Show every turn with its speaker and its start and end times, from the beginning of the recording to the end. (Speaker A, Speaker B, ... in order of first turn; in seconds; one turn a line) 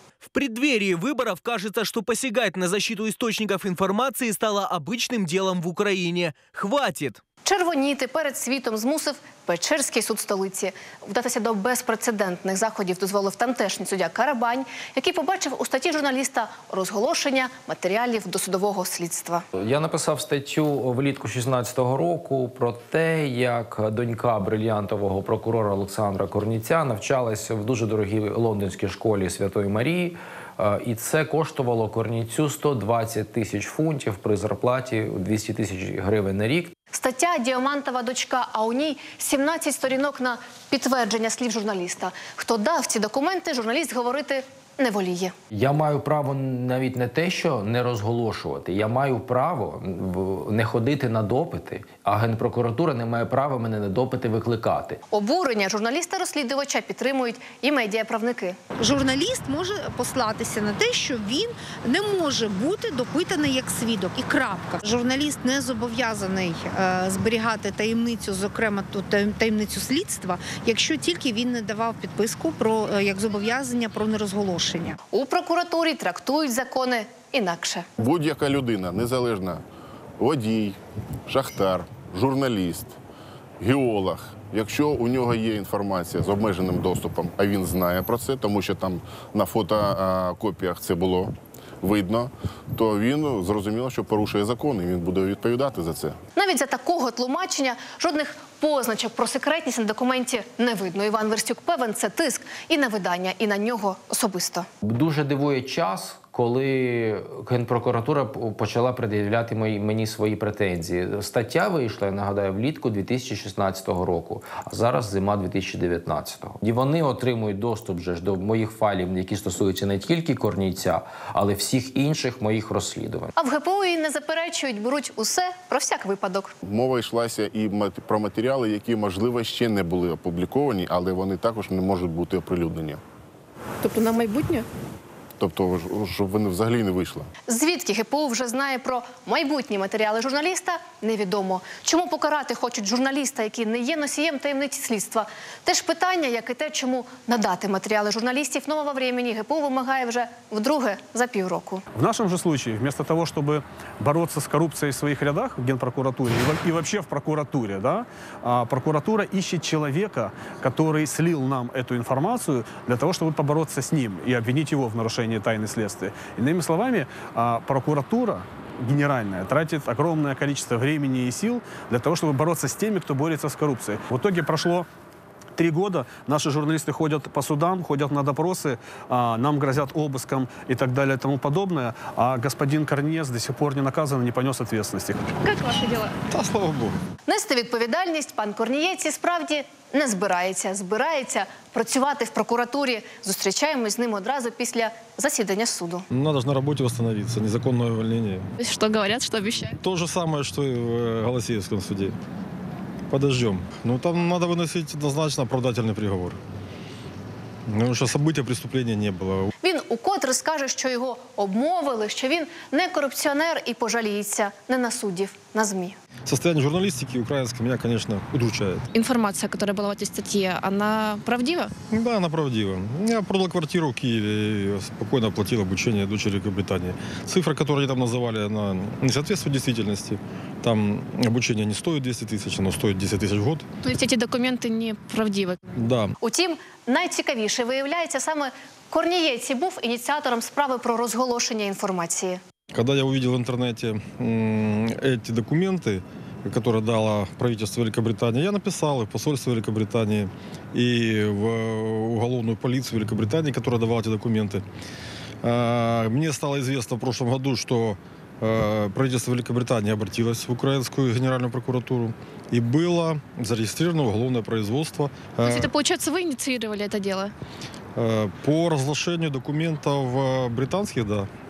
Speaker A: 0.3-7.2
Speaker B: 7.4-19.4
Speaker C: 19.6-36.7
Speaker B: 36.9-45.3
Speaker C: 45.5-55.0
Speaker B: 55.1-58.5
Speaker D: 58.8-75.0
Speaker B: 75.1-77.9
Speaker E: 78.0-79.6
Speaker E: 80.2-83.0
Speaker E: 83.6-96.2
Speaker B: 96.3-104.7
Speaker C: 104.8-123.3
Speaker B: 123.4-126.5
Speaker E: 126.7-133.0
Speaker F: 133.8-134.6
Speaker B: 133.9-134.5
Speaker E: 135.4-137.3
Speaker B: 137.5-151.8
Speaker G: 151.9-174.9
Speaker G: 175.6-185.3
Speaker F: 185.4-186.2
Speaker H: 186.3-187.0
Speaker B: 187.2-196.1
Speaker H: 196.1-198.5
Speaker F: 198.6-199.8
Speaker H: 199.8-202.2
Speaker H: 203.1-206.4
Speaker H: 207.7-209.5
Speaker B: 209.6-215.9
Speaker H: 216.2-218.9
Speaker F: 218.9-221.7
Speaker H: 221.9-233.7
Speaker F: 233.8-235.6
Speaker H: 235.8-236.1
Speaker B: 236.2-242.4
Speaker H: 242.7-254.6
Speaker H: 255.4-265.7
Speaker F: 265.4-267.3
Speaker H: 267.9-271.3